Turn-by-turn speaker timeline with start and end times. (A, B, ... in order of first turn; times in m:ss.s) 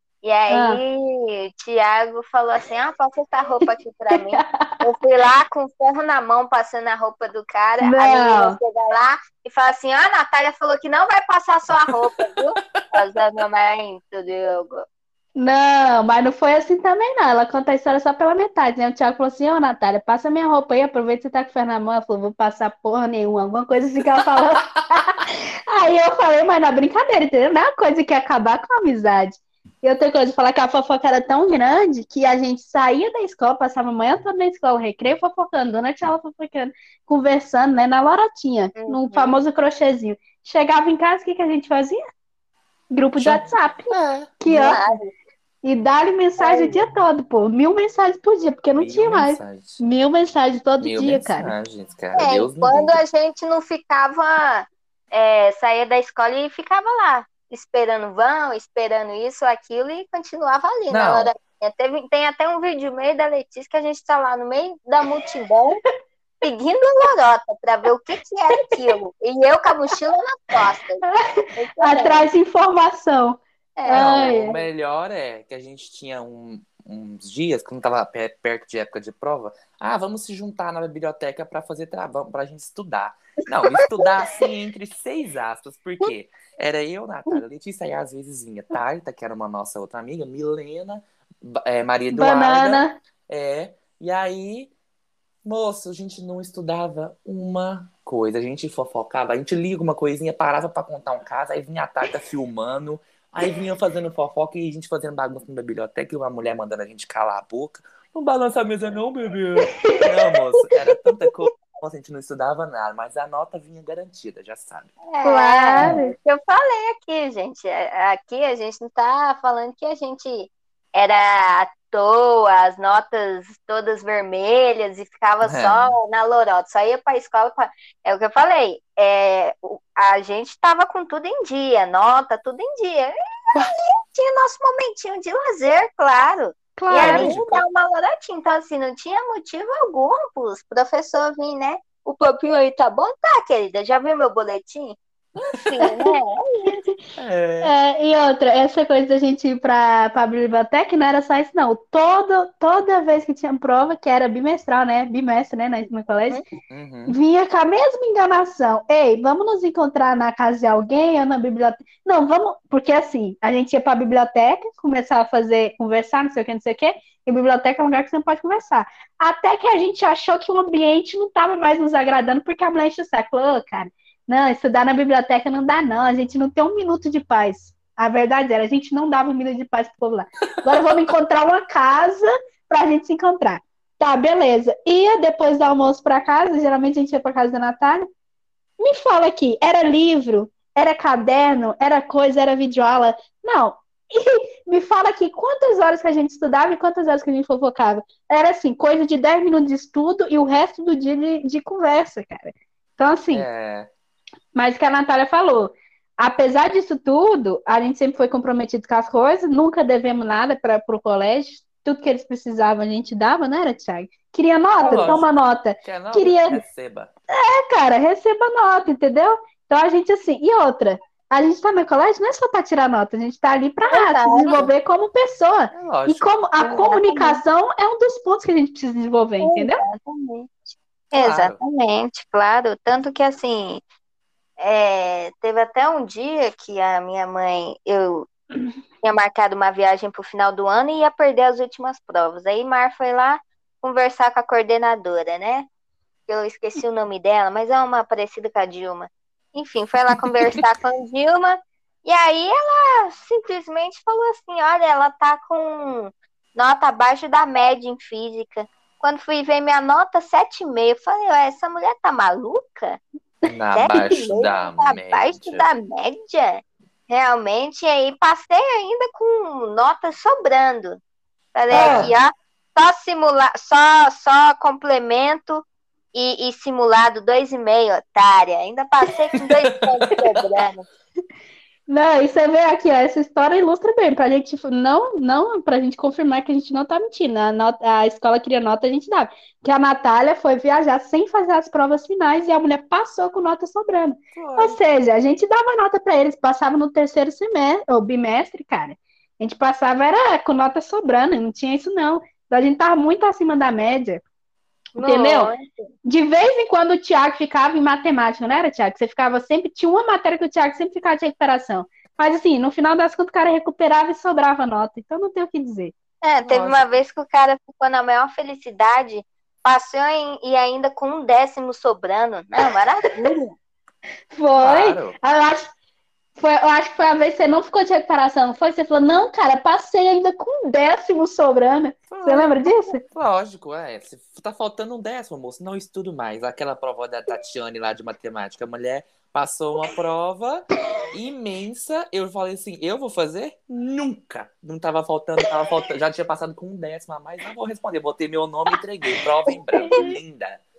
0:00.2-0:14.8 A
0:00.5-0:00.8 B
0:04.1-0:04.7 B
0:07.8-0:08.6 B
0:11.7-0:12.2 C
0:15.4-0:42.0 B
0:38.8-0:39.4 A
0:42.9-0:44.8 B
0:43.2-0:44.3 C
0:44.5-0:45.1 A
0:45.6-0:51.5 B
0:46.4-0:46.8 A
0:48.7-0:49.8 C
0:50.8-0:53.0 C
0:52.1-1:05.8 A
1:00.9-1:01.3 C
1:06.4-1:11.0 A
1:08.6-1:08.9 B
1:11.0-1:14.6 B
1:11.6-1:12.3 A
1:13.8-1:14.1 A
1:13.9-1:34.7 C
1:32.1-1:32.9 B
1:35.4-1:54.9 C
1:49.7-1:50.1 B
1:55.0-2:26.8 A
1:55.2-1:56.1 B
2:05.4-2:06.0 C
2:16.8-2:17.3 B
2:16.9-2:17.6 C
2:25.8-2:26.1 B
2:27.2-2:27.7 C
2:27.6-2:36.4 B
2:36.7-2:37.2 C
2:37.1-3:08.1 B
3:08.8-3:23.5 B
3:23.3-3:23.9 C
3:24.5-3:36.6 B
3:34.8-3:35.2 A
3:34.8-3:35.3 C
3:35.8-3:37.1 C
3:37.3-3:49.8 B
3:43.9-3:44.7 A
3:45.7-3:46.9 C
3:46.7-3:47.4 A
3:49.4-3:53.8 A
3:51.1-3:51.6 C
3:54.6-3:58.3 A
3:59.0-4:05.7 A
4:06.3-4:23.0 A
4:23.5-4:25.7 C
4:23.7-4:31.0 A
4:31.5-4:40.8 A
4:31.7-4:32.1 C
4:31.7-4:32.1 B
4:39.4-4:40.0 C
4:40.1-4:40.4 B
4:41.9-5:04.2 B
4:54.3-4:54.8 C
5:05.0-5:05.9 A
5:05.0-5:05.5 B
5:06.0-5:15.9 B
5:16.2-5:23.5 A
5:16.5-5:17.0 C
5:24.3-5:25.7 B
5:24.6-5:25.2 C
5:26.4-5:33.0 B
5:32.1-5:50.6 C
5:49.7-5:50.1 B